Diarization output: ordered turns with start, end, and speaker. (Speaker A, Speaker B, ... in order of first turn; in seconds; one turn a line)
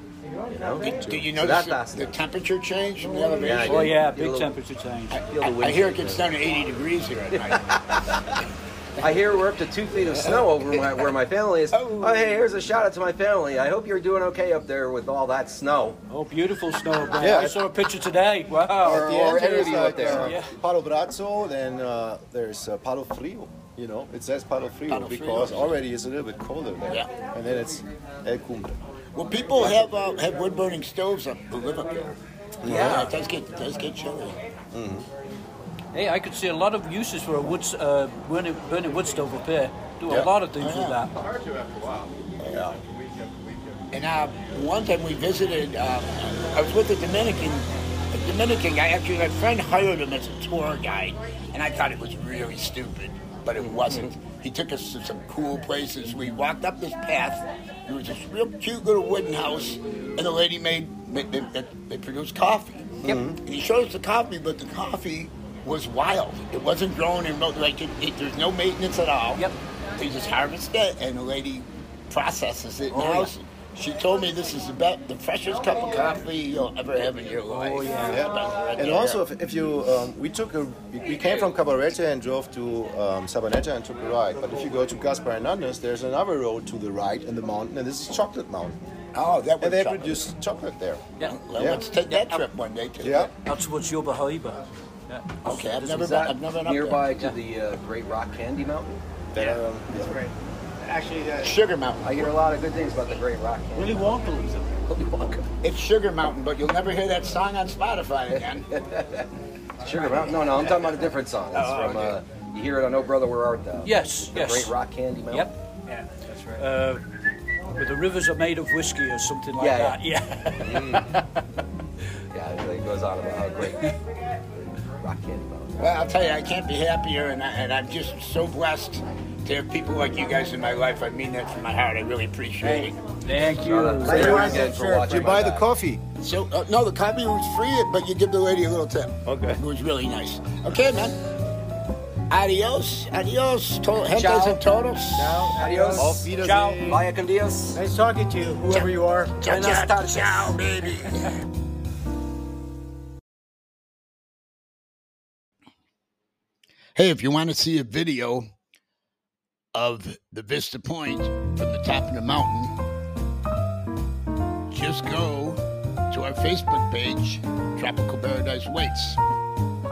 Speaker A: 0.2-1.1
Speaker B: 0.5-2.2
Speaker C: 1.0-4.0
Speaker A: 3.0-3.8
Speaker B: 3.4-4.5
Speaker D: 3.6-5.2
Speaker C: 5.1-7.7
Speaker B: 5.3-6.3
Speaker B: 7.3-8.4
Speaker B: 9.0-16.0
Speaker C: 10.0-11.1
Speaker C: 11.7-12.4
Speaker D: 16.1-19.0
Speaker E: 17.2-17.7
Speaker B: 18.6-20.4
Speaker E: 18.8-28.8
Speaker D: 20.1-20.5
Speaker C: 24.9-25.8
Speaker C: 29.1-32.2
Speaker E: 32.6-33.1
Speaker B: 32.7-33.0
Speaker C: 32.7-34.4
Speaker E: 34.7-35.1
Speaker D: 35.9-41.2
Speaker C: 40.6-41.0
Speaker E: 42.4-42.8
Speaker C: 43.9-79.2
Speaker B: 53.6-53.9
Speaker E: 63.0-63.4
Speaker D: 72.9-73.3
Speaker D: 77.5-78.3
Speaker E: 78.1-88.8
Speaker C: 89.1-90.2
Speaker E: 89.6-91.8
Speaker C: 91.2-93.3
Speaker D: 92.1-92.5
Speaker E: 93.0-93.3
Speaker D: 93.4-96.3
Speaker C: 95.4-97.2
Speaker B: 96.1-99.0
Speaker E: 99.3-100.2
Speaker A: 99.9-101.6
Speaker C: 101.4-102.4
Speaker B: 102.0-104.0
Speaker A: 103.8-104.8
Speaker C: 104.9-108.7
Speaker B: 108.8-109.3
Speaker B: 109.8-115.5
Speaker C: 111.5-112.2
Speaker D: 113.8-114.8
Speaker D: 115.3-115.5
Speaker A: 116.3-116.5
Speaker D: 116.6-117.0
Speaker D: 117.8-121.4
Speaker B: 119.6-120.0
Speaker B: 120.6-121.1
Speaker B: 122.3-123.9
Speaker B: 124.6-125.9
Speaker C: 125.8-133.0
Speaker A: 132.6-132.9
Speaker D: 133.2-134.6
Speaker B: 133.5-135.7
Speaker A: 134.0-135.4
Speaker E: 134.1-136.0
Speaker C: 136.2-141.2
Speaker E: 139.2-139.6
Speaker C: 142.3-145.5
Speaker B: 144.1-144.6
Speaker A: 145.1-146.3
Speaker B: 145.5-147.8
Speaker E: 145.9-147.0
Speaker D: 146.4-146.8
Speaker A: 147.7-149.4
Speaker C: 148.7-151.4
Speaker B: 149.4-150.6
Speaker C: 157.0-158.5
Speaker C: 159.7-162.8
Speaker C: 164.7-169.2